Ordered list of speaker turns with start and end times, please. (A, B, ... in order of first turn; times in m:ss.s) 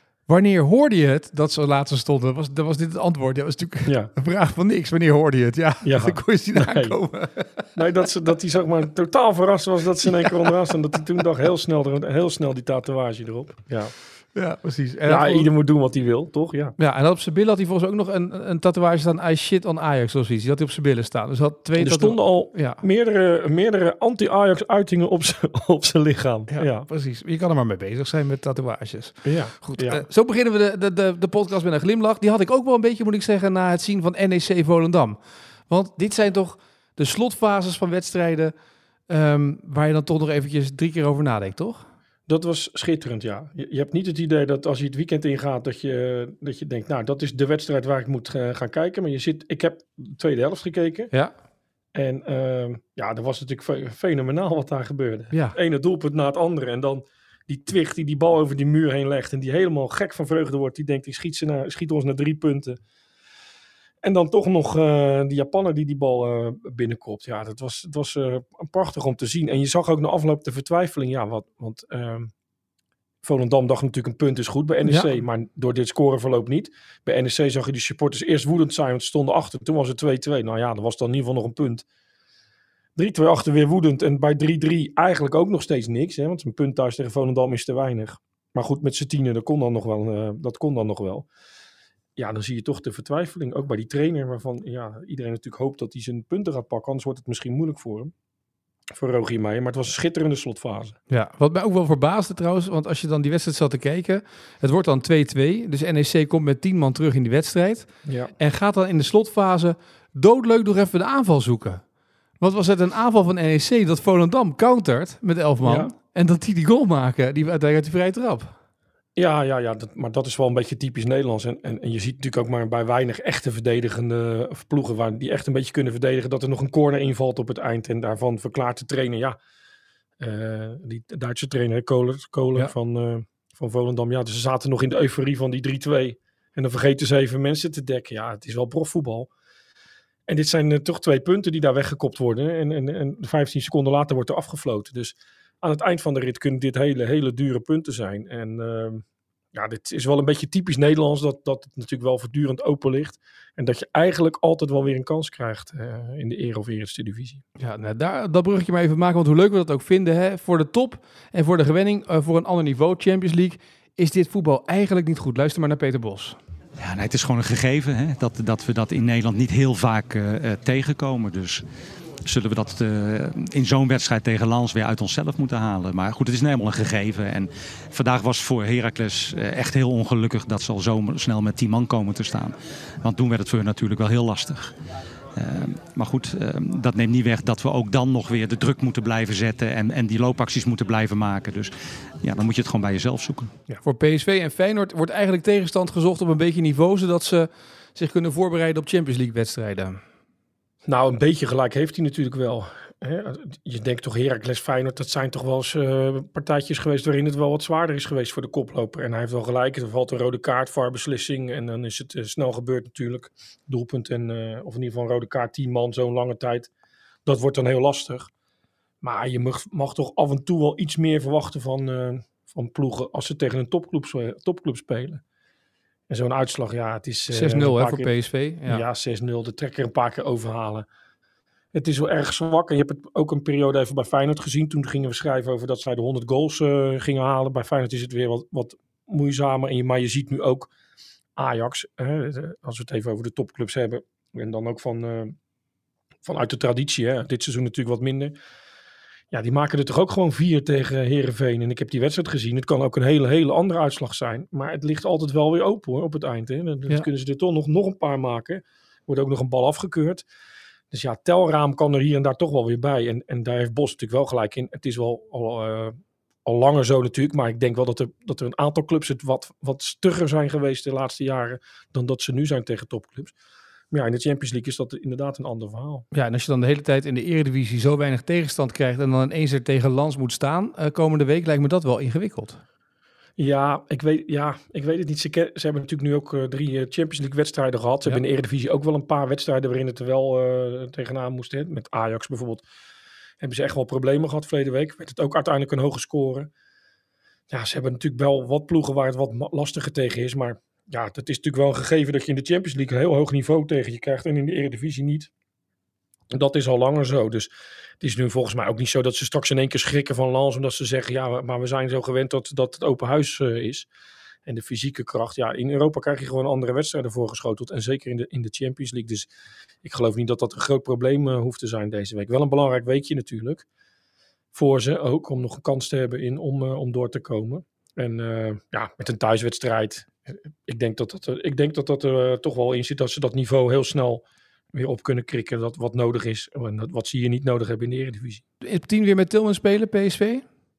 0:00.3-0:07.6 A
0:03.8-0:04.1 B
0:05.8-0:07.0 B
0:07.7-0:13.9 B
0:14.3-0:15.5 A
0:15.0-0:16.8 B
0:16.8-0:22.8 A
0:21.8-0:26.8 B
0:26.5-0:38.5 A
0:29.2-0:30.0 B
0:39.1-0:41.8 A
0:42.3-0:51.1 B
0:51.9-1:02.8 B
0:55.3-0:55.6 A
1:04.0-1:12.3 B
1:13.2-1:21.8 B
1:14.8-1:15.1 A
1:23.0-1:31.2 B
1:32.2-1:38.1 B
1:38.9-1:41.0 B
1:41.1-1:51.8 A
1:48.0-1:48.3 B
1:52.4-1:58.5 A
1:55.6-1:55.9 B
1:59.2-2:09.4 B
2:10.2-2:19.3 B
2:20.3-2:37.4 B
2:37.6-2:46.4 A
2:46.8-2:51.6 C
2:52.2-3:04.7 C
3:05.4-3:13.5 C
3:13.8-3:20.0 A
3:20.9-3:36.7 B
3:37.2-3:38.3 B
3:39.0-3:45.2 B
3:46.1-3:48.1 B
3:47.3-3:48.8 A
3:48.6-3:50.8 B
3:51.7-4:00.7 B
4:01.4-4:05.4 B
4:06.2-4:08.3 B
4:09.3-4:20.2 B
4:20.9-4:33.3 B
4:33.9-4:36.1 B
4:36.1-4:42.6 A
4:43.4-4:52.6 B
4:53.4-4:56.5 B
4:57.5-5:05.3 B
5:06.3-5:07.5 B
5:08.0-5:13.9 B
5:14.4-5:19.3 B
5:19.8-5:23.6 B
5:24.5-5:38.4 B
5:38.6-5:40.4 A